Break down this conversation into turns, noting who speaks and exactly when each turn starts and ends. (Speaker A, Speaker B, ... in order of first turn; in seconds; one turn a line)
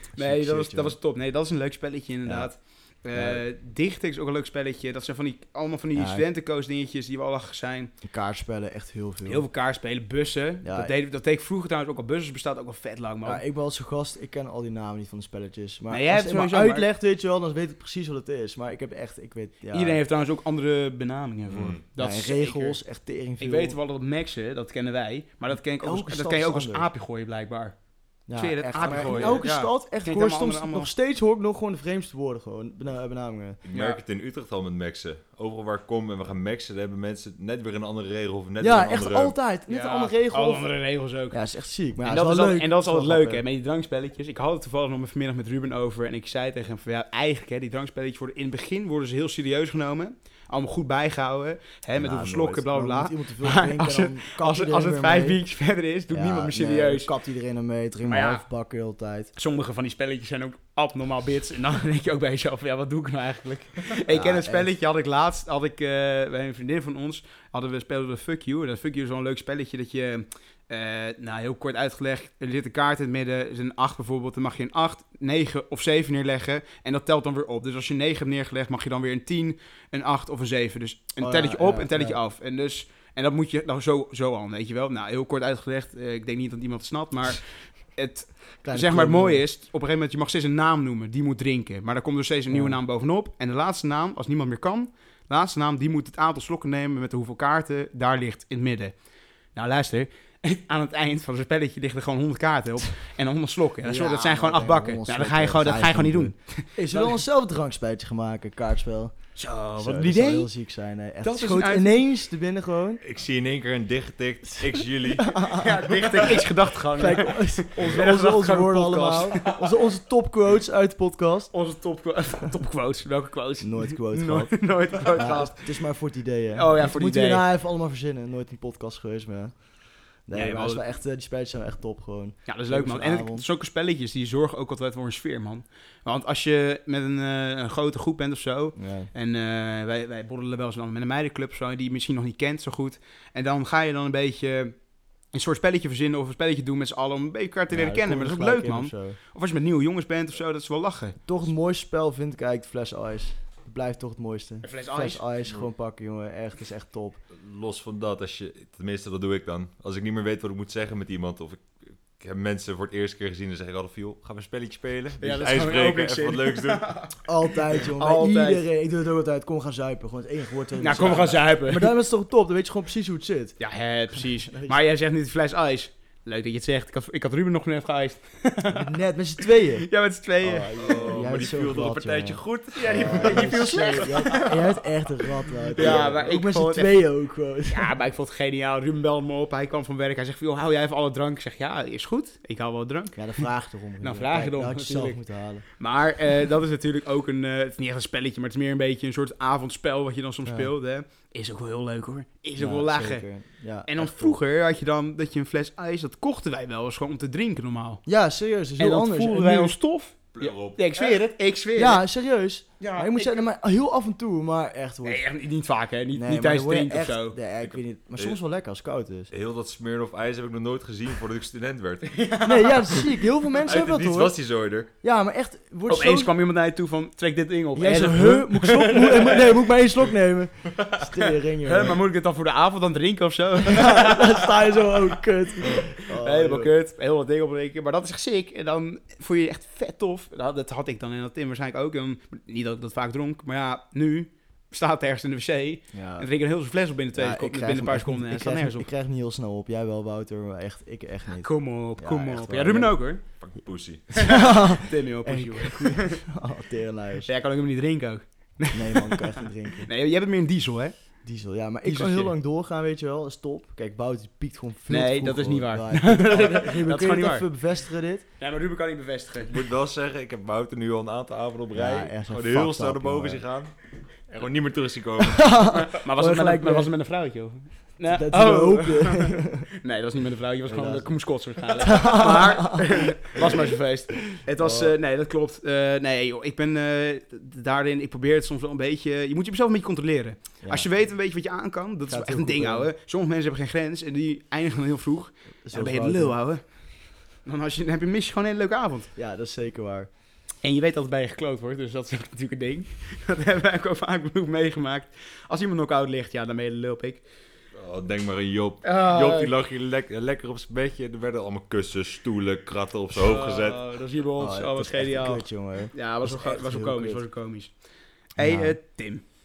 Speaker A: 0.1-7.9
Speaker B: 0.1-1.0
Speaker B: 2.2-2.5
Speaker B: 3.1-3.4
Speaker B: 5.9-6.2
Speaker B: 8.0-9.4
Speaker A: 9.2-13.4
Speaker B: 10.6-10.9
Speaker B: 13.2-20.0
Speaker A: 15.9-16.9
Speaker A: 19.7-22.8
Speaker C: 21.5-21.8
Speaker B: 22.0-23.8
Speaker A: 23.4-27.8
Speaker B: 25.8-26.9
Speaker B: 28.3-33.6
Speaker A: 28.3-30.9
Speaker C: 28.8-29.4
Speaker C: 33.6-39.4
Speaker A: 33.7-34.0
Speaker B: 38.6-40.7
Speaker A: 39.7-41.4
Speaker B: 41.3-43.4
Speaker A: 42.0-57.1
Speaker B: 52.0-55.4
Speaker B: 56.1-59.3
Speaker A: 58.0-58.4
Speaker A: 59.3-98.9
Speaker B: 64.1-64.7
Speaker B: 81.2-82.2
Speaker B: 88.6-89.4
Speaker B: 92.5-92.8
Speaker A: 99.5-107.2
Speaker B: 103.8-113.0
Speaker A: 109.3-110.5
Speaker A: 111.2-112.0
Speaker C: 113.0-115.4
Speaker B: 114.6-116.4
Speaker A: 115.5-119.6
Speaker B: 116.9-121.5
Speaker A: 121.5-125.8
Speaker B: 123.6-129.7
Speaker A: 126.5-127.4
Speaker B: 130.2-133.4
Speaker A: 130.3-130.8
Speaker A: 132.4-144.8
Speaker B: 138.8-139.1
Speaker A: 145.3-151.2
Speaker B: 147.7-149.2
Speaker B: 151.2-157.2
Speaker A: 154.6-155.2
Speaker C: 157.3-167.0
Speaker A: 165.2-167.2
Speaker B: 167.2-173.6
Speaker A: 167.7-168.6
Speaker A: 170.8-171.9
Speaker A: 173.6-178.9
Speaker B: 174.1-174.8
Speaker B: 178.7-179.9
Speaker A: 179.8-180.8
Speaker B: 180.4-187.9
Speaker C: 180.8-183.7
Speaker A: 182.7-184.8
Speaker A: 185.7-187.1
Speaker A: 187.7-193.4
Speaker B: 193.1-195.6
Speaker A: 194.0-195.2
Speaker A: 195.8-203.2
Speaker B: 200.4-200.7
Speaker B: 202.6-204.4
Speaker A: 203.8-208.0
Speaker B: 208.1-209.8
Speaker A: 208.8-212.0
Speaker C: 210.3-210.9
Speaker B: 211.7-215.2
Speaker A: 212.8-213.4
Speaker A: 215.0-217.4
Speaker B: 216.1-219.3
Speaker C: 217.6-218.4
Speaker C: 219.3-222.2
Speaker A: 222.1-223.1
Speaker B: 222.4-224.3
Speaker C: 223.6-224.9
Speaker B: 225.0-226.3
Speaker A: 225.9-229.5
Speaker B: 227.8-232.0
Speaker A: 231.6-234.5
Speaker B: 233.6-236.7
Speaker A: 235.7-248.9
Speaker B: 245.9-246.3
Speaker B: 247.1-253.0
Speaker A: 251.4-253.2
Speaker C: 253.4-254.3
Speaker B: 254.1-257.3
Speaker A: 254.2-256.2
Speaker A: 257.2-261.0
Speaker B: 258.7-259.9
Speaker B: 261.2-268.2
Speaker A: 261.8-262.3
Speaker A: 264.9-267.5
Speaker A: 268.4-269.6
Speaker C: 269.5-275.5
Speaker B: 271.7-273.4
Speaker B: 275.2-276.9
Speaker A: 275.7-296.6
Speaker B: 278.1-279.7
Speaker B: 280.7-281.1
Speaker B: 281.8-282.8
Speaker B: 283.4-283.7
Speaker B: 284.3-284.9
Speaker B: 290.6-290.9
Speaker B: 292.1-292.9
Speaker B: 295.6-296.4
Speaker A: 297.4-299.1
Speaker B: 299.1-300.1
Speaker A: 300.6-307.2
Speaker C: 307.8-313.8
Speaker A: 308.8-309.5
Speaker A: 313.1-317.7
Speaker B: 314.4-317.2
Speaker A: 318.4-319.2
Speaker B: 318.4-318.8